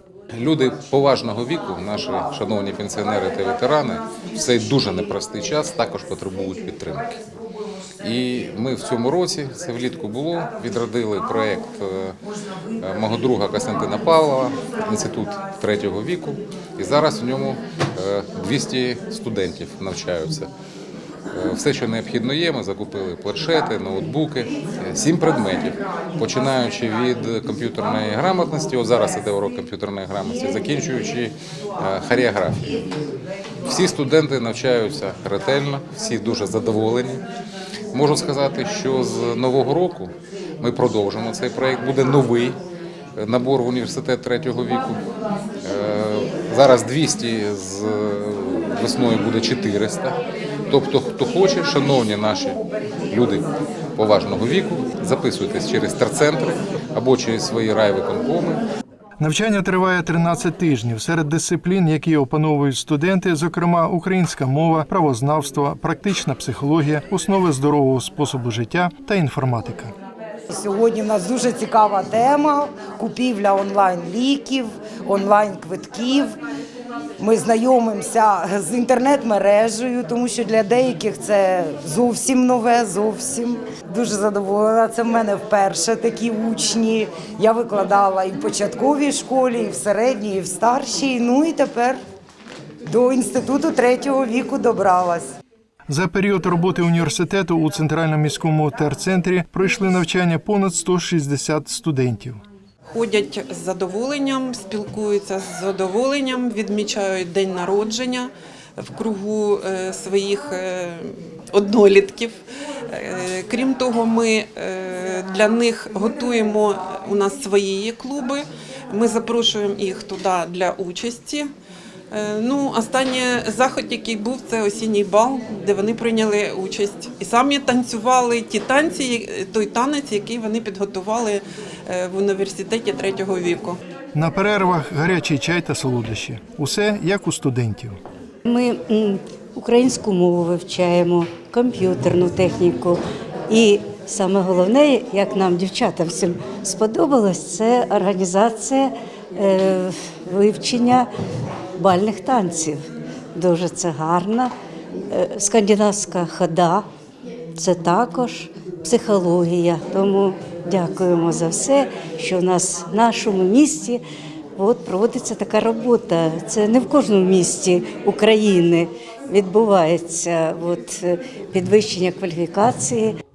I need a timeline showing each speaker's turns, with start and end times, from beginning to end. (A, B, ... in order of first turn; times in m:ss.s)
0:00.3-0:07.1 A
0:08.0-0:12.2 A
0:12.8-0:20.5 A
0:21.3-0:32.8 A
0:33.7-0:37.3 A
0:37.9-0:42.6 A
0:43.2-0:45.0 A
0:45.6-0:58.6 A
0:59.2-1:09.9 B
1:10.5-1:16.3 C
1:17.2-1:32.0 C
1:32.9-1:35.3 C
1:35.9-1:42.4 B
1:42.9-1:52.4 D
1:52.9-2:01.5 D
2:02.1-2:13.8 D
2:14.1-2:18.0 B
2:18.5-2:31.1 E
2:31.8-2:32.8 E
2:33.4-2:34.5 E
2:35.1-2:36.9 E
2:37.6-2:44.0 E
2:44.6-2:53.2 E